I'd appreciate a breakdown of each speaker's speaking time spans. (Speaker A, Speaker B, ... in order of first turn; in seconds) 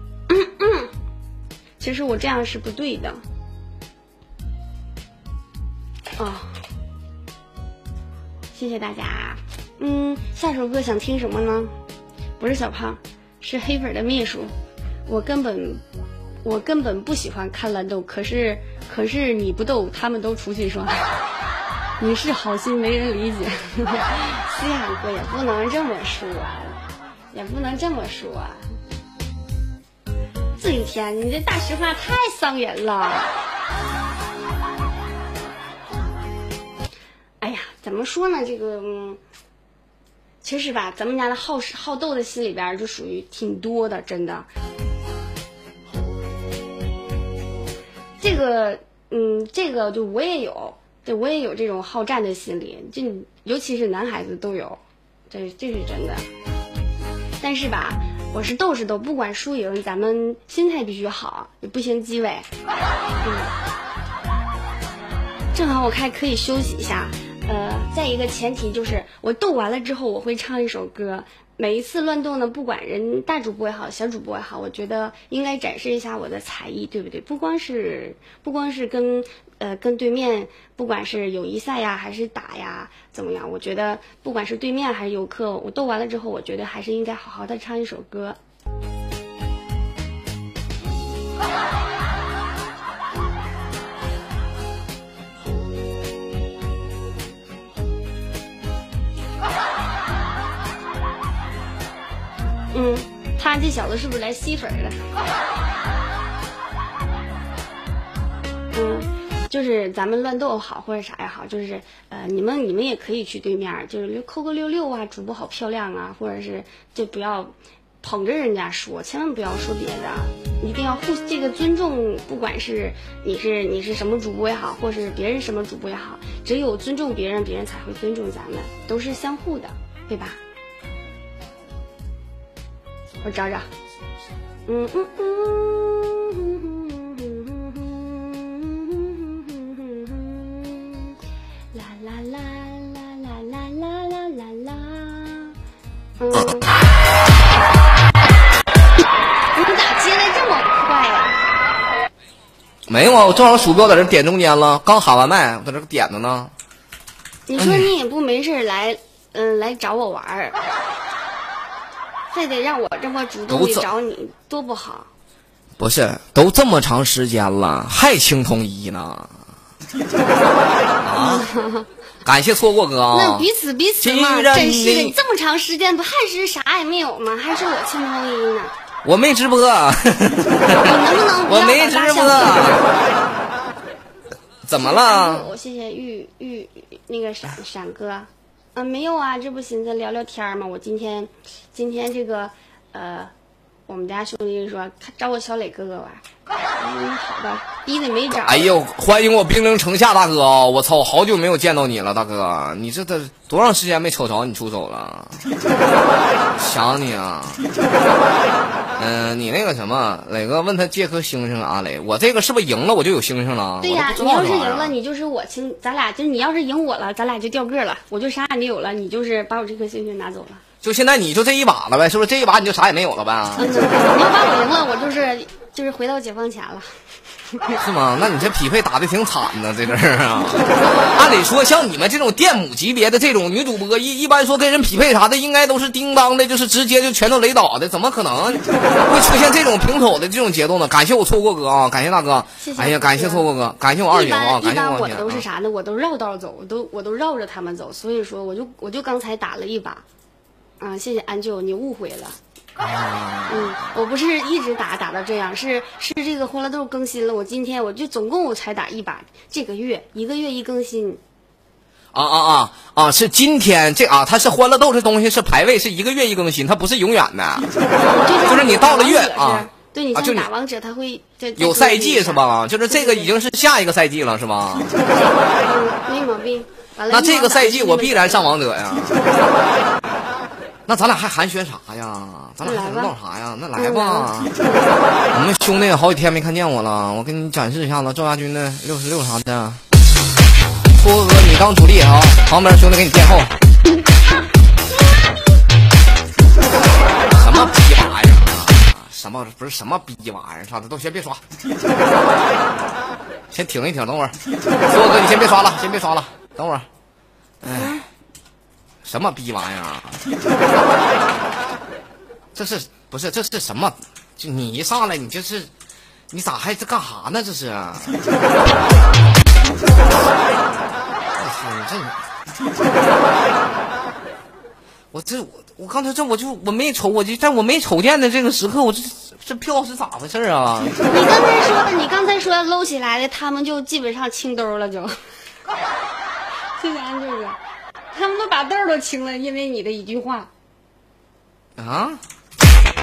Speaker A: 0.3-0.9, 1.8-3.2, 6.2-6.5, 8.5-11.7, 12.4-14.5, 15.1-15.8, 16.4-21.1, 22.0-26.8, 27.3-28.6, 30.6-33.3, 37.4-39.2, 40.4-44.5, 48.2-56.2, 57.4-62.5, 63.2-63.5, 65.5-88.4, 102.7-105.0, 108.7-130.4, 133.2-133.7, 134.7-141.1, 141.7-145.5, 146.2-146.7, 149.5-151.4, 157.5-160.6, 162.3-165.1, 171.2-171.9, 173.1-178.7, 180.8-182.8, 184.7-193.3, 193.9-196.2, 196.8-198.8, 213.8-220.6, 223.6-226.9, 227.5-227.8, 242.6-243.4, 244.1-250.0, 250.8-252.4, 253.5-261.2, 267.9-273.3, 275.0-278.5, 282.6-283.1, 283.8-284.3, 331.1-335.1, 336.8-337.6, 338.1-340.5
Speaker B: 146.3-146.6, 152.9-156.5, 157.6-157.9, 163.5-163.9, 165.8-169.4, 171.0-171.5, 172.2-173.5, 174.0-175.2, 179.0-182.9, 184.7-185.5, 198.4-205.4, 206.6-207.6, 209.0-214.9, 220.8-223.7, 227.8-245.4, 252.8-253.8, 262.1-267.7, 268.4-270.5, 271.6-274.9, 277.1-279.2, 280.9-284.5, 285.3-289.8, 290.9-293.5, 297.3-301.4, 303.5-304.3, 304.9-306.9, 307.6-308.0, 309.0-310.2, 312.5-315.7, 316.3-318.1, 321.4-322.1, 325.1-331.0, 341.8-342.2